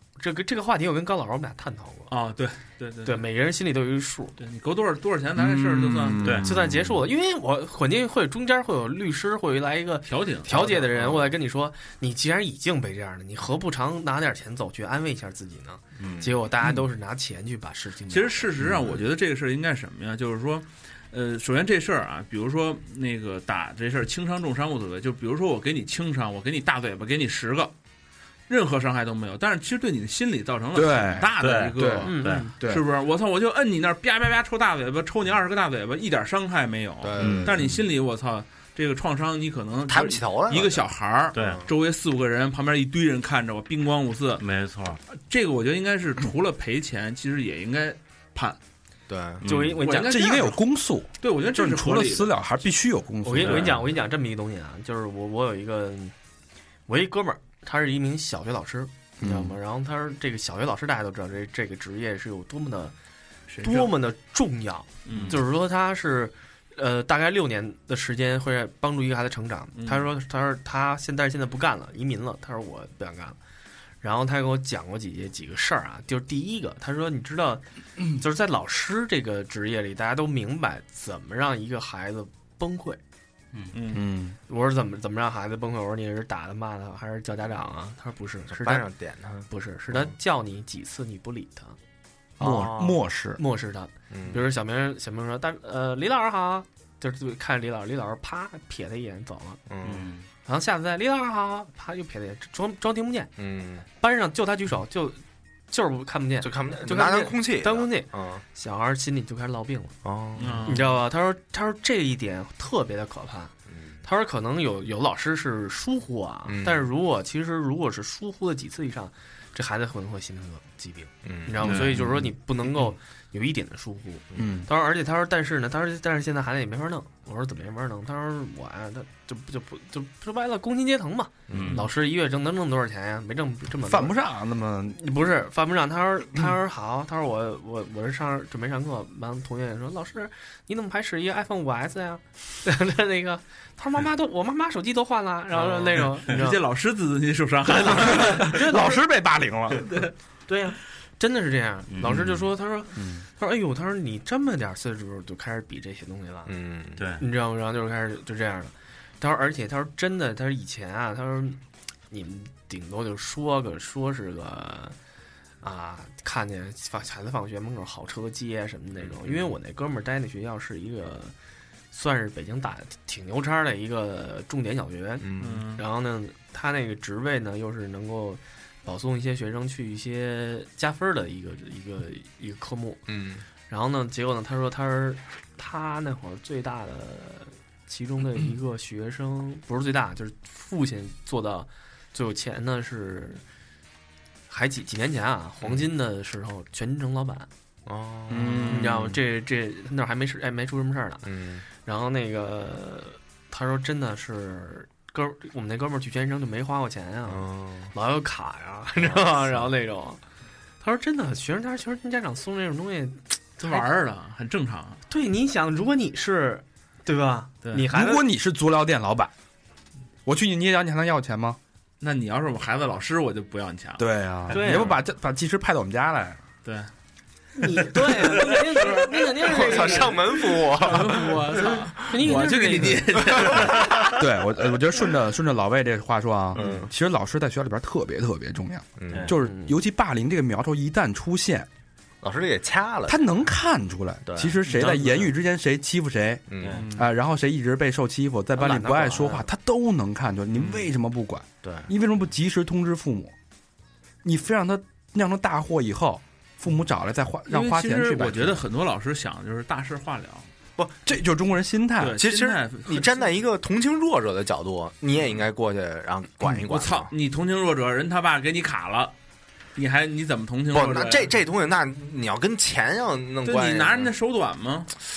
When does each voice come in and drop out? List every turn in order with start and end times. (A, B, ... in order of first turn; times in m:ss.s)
0:00.2-0:02.1 A
0:02.1-0:03.2 B
0:03.0-0:04.4 A
0:04.4-0:06.4 B
0:05.4-0:07.0 C
0:06.2-0:06.5 D
0:06.4-0:18.5 A
0:10.1-0:10.8 B
0:10.9-0:11.3 E
0:16.0-0:16.3 D
0:16.0-0:16.3 E
0:18.1-0:27.7 B
0:28.5-0:44.4 B
0:30.7-0:32.8 C
0:31.4-0:32.5 D
0:32.0-0:32.5 A
0:37.0-0:37.8 E
0:37.2-0:37.7 D
0:39.9-0:40.8 E
0:41.3-0:41.7 D
0:41.4-0:41.7 E
0:44.4-0:45.0 D
0:45.1-0:48.6 B
0:49.1-0:49.4 E
0:49.4-0:49.8 D
0:49.4-0:50.5 A
0:49.8-0:50.6 B
0:50.0-0:53.7 C
0:51.2-0:52.3 B
0:53.2-0:56.1 A
0:53.4-0:53.7 B
0:56.9-1:02.9 A
0:59.2-0:59.5 C
1:03.5-1:03.9 B
1:03.6-1:13.4 A
1:05.0-1:05.4 B
1:05.1-1:05.4 D
1:09.8-1:10.1 B
1:14.0-1:23.0 A
1:23.7-1:24.0 B
1:23.9-1:24.4 C
1:24.5-1:28.9 A
1:28.5-1:30.1 E
1:29.5-1:31.8 A
1:32.4-1:33.0 E
1:32.4-1:33.4 C
1:33.4-1:39.6 A
1:34.1-1:34.4 E
1:39.7-1:40.1 E
1:39.8-1:40.3 D
1:40.4-1:43.3 A
1:43.4-1:43.8 E
1:44.0-1:50.0 A
1:46.4-1:48.4 E
1:50.0-1:50.7 E
1:50.4-1:51.0 B
1:50.6-1:53.5 A
1:53.7-1:54.0 E
1:54.0-2:14.2 A
1:56.4-1:56.8 E
2:01.2-2:02.0 E
2:01.6-2:02.1 C
2:04.4-2:04.7 C
2:11.5-2:11.8 E
2:11.5-2:11.8 D
2:13.8-2:15.0 C
2:14.9-2:26.6 A
2:25.6-2:28.5 B
2:27.7-2:29.0 A
2:27.9-2:30.0 C
2:30.5-2:36.5 A
2:31.9-2:32.4 D
2:33.0-2:33.2 C
2:36.4-2:37.0 E
2:37.0-2:37.2 D
2:37.2-2:41.6 A
2:42.1-2:45.0 A
2:45.6-2:51.3 A
2:49.0-2:49.5 E
2:51.9-3:03.0 A
2:55.2-2:55.7 E
2:55.4-2:55.8 B
3:03.1-3:03.4 E
3:03.7-3:13.4 A
3:14.5-3:17.5 A
3:17.8-3:19.2 E
3:18.3-3:19.0 B
3:18.7-3:21.2 A
3:21.2-3:21.6 E
3:21.8-3:30.2 A
3:27.3-3:27.9 E
3:29.0-3:29.7 E
3:30.8-3:33.8 A
3:33.6-3:35.0 B
3:35.1-3:38.2 A
3:37.9-3:39.3 C
3:40.2-3:41.6 C
3:42.0-3:44.9 B
3:44.0-3:46.4 C
3:44.5-3:44.9 A
3:46.6-3:46.9 B
3:47.5-3:53.7 A
3:49.4-3:51.8 E
3:49.7-3:54.2 B
3:53.3-3:54.1 E
3:54.1-4:01.7 C
3:56.5-3:56.9 E
3:59.0-3:59.3 E
3:59.3-3:59.8 A
4:02.2-4:03.3 E
4:03.1-4:13.3 C
4:04.2-4:04.9 E
4:04.7-4:05.2 A
4:06.5-4:06.8 E
4:06.7-4:07.0 B
4:08.6-4:09.5 A
4:11.6-4:11.9 E
4:14.2-4:18.6 C
4:17.5-4:20.5 B
4:21.0-4:22.2 C
4:22.0-4:23.4 B
4:22.2-4:27.1 E
4:26.5-4:29.1 B
4:29.7-4:31.3 B
4:30.7-4:34.1 E
4:33.4-4:34.9 B